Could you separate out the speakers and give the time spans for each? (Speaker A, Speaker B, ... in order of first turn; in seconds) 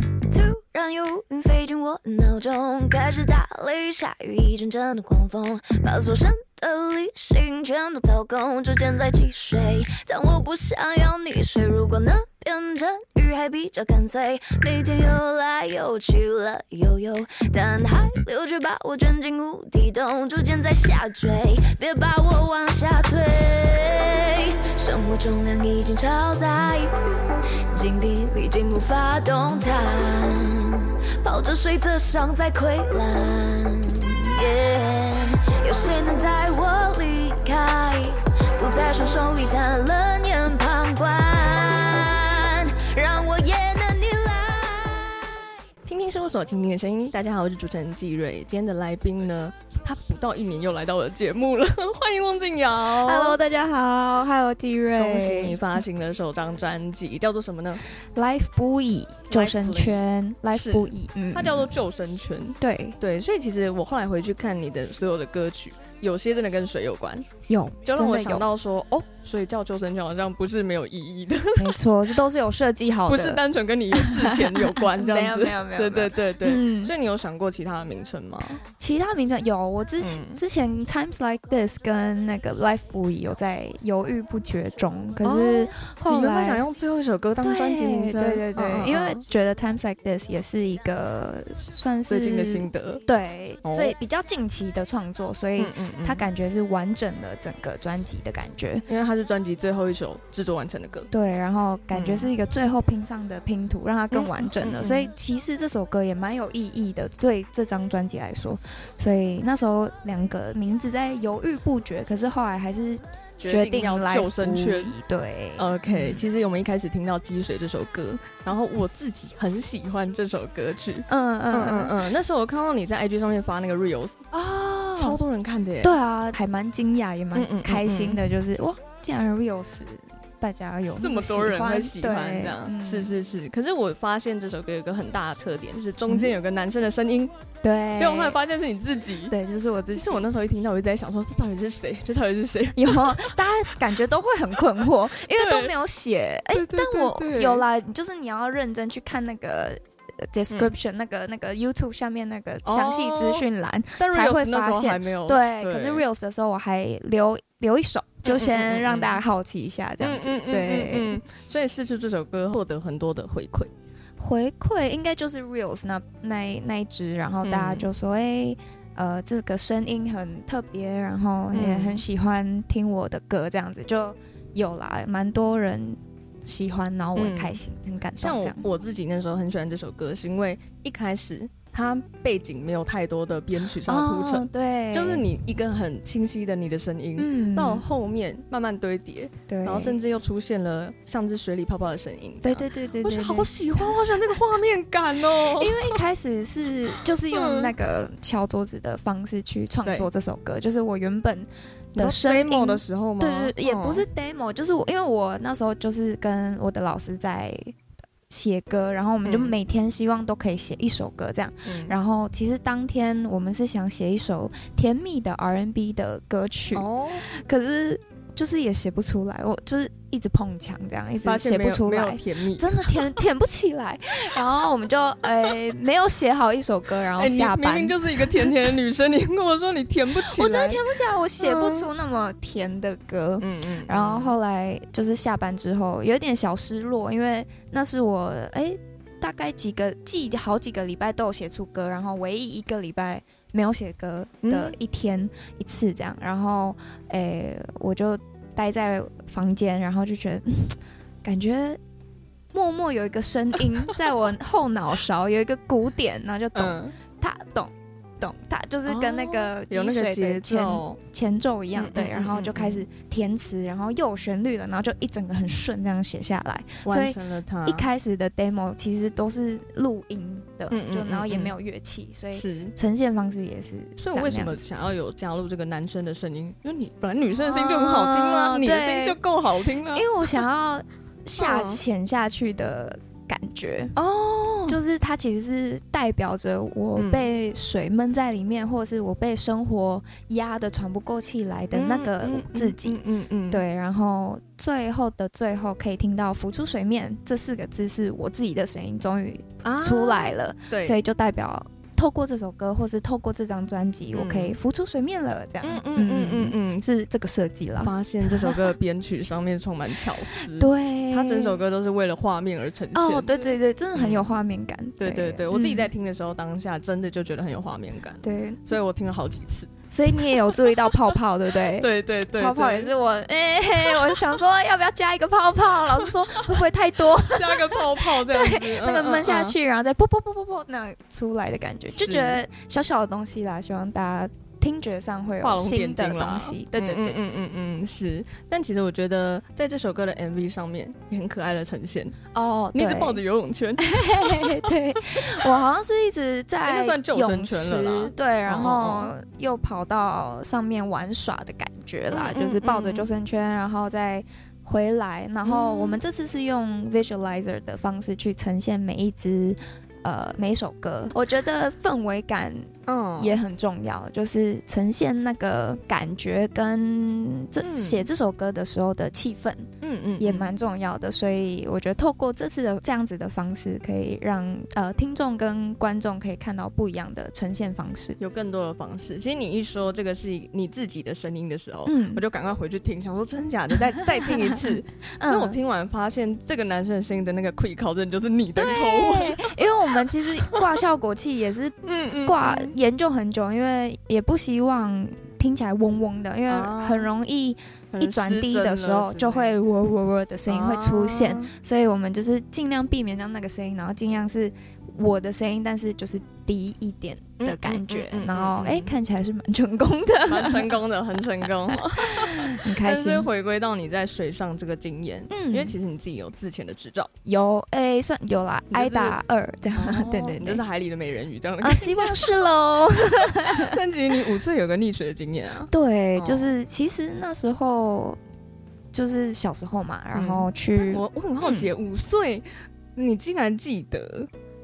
Speaker A: 0.3-26.9, 27.7-45.4
Speaker B: 45.9-53.4, 55.0-57.8, 59.3-67.3, 67.8-72.0, 73.1-78.6, 80.0-80.4, 85.2-89.2, 92.1-93.0, 93.6-94.0, 95.6-96.2, 98.9-101.1, 101.9-102.3, 104.1-105.1, 113.4-115.0, 115.6-124.2, 125.0-125.9, 127.3-128.2, 131.0-137.3, 138.0-139.4, 139.9-143.3, 145.3-145.7, 146.5-147.7, 152.7-153.5, 154.0-156.1, 158.2-159.2, 160.0-163.7, 167.4-167.9, 171.5-172.0, 177.2-177.6, 178.2-196.0, 197.3-197.7, 202.0-204.1, 209.2-209.6, 211.7-211.9, 216.7-217.2, 221.2-223.0, 227.2-231.9, 233.4-234.3, 244.4-244.8, 256.6-256.9, 258.9-261.0, 261.7-262.9, 266.8-267.9, 270.7-271.6, 272.4-272.8, 274.0-280.4, 281.4-281.8, 284.0-284.8, 286.9-287.3, 291.7-293.6, 299.6-301.0, 304.1-304.6, 305.6-306.9, 307.8-314.4, 315.0-320.9, 321.8-322.9, 323.9-324.3, 327.1-329.6, 331.9-332.4, 335.4-342.2, 342.7-345.5, 346.6-349.1, 352.1-353.1, 355.4-356.0, 362.9-363.4, 367.6-368.1, 369.8-370.5, 378.2-389.6, 391.8-392.8, 396.5-397.1, 397.9-399.5, 400.5-401.5, 407.4-408.9, 410.3-417.1, 418.7-419.2, 419.8-422.4, 423.5-426.5, 430.1-434.3
Speaker C: 52.9-55.6, 58.2-61.7, 62.6-63.0, 67.5-68.5, 71.6-76.9, 78.8-86.6, 87.4-98.8, 101.1-116.2, 121.1-122.0, 124.3-125.2, 125.8-133.1, 136.1-136.3, 137.6-138.4, 139.3-140.3, 142.8-161.2, 164.2-178.7, 183.9-185.3, 187.2-187.8, 189.5-190.0, 192.4-193.5, 195.5-207.7, 208.3-228.5, 230.2-251.8, 252.5-274.6, 277.4-279.2, 279.9-283.9, 284.7-293.0, 293.5-308.7, 310.4-311.6, 312.9-315.9, 318.2-318.8, 319.9-337.2, 342.3-343.2, 343.8-369.7, 370.2-378.2, 381.9-382.2, 385.2-385.6, 388.6-410.8, 411.4-413.3, 415.3-415.8, 417.2-420.6, 421.6-423.8, 425.7-428.2, 428.9-431.7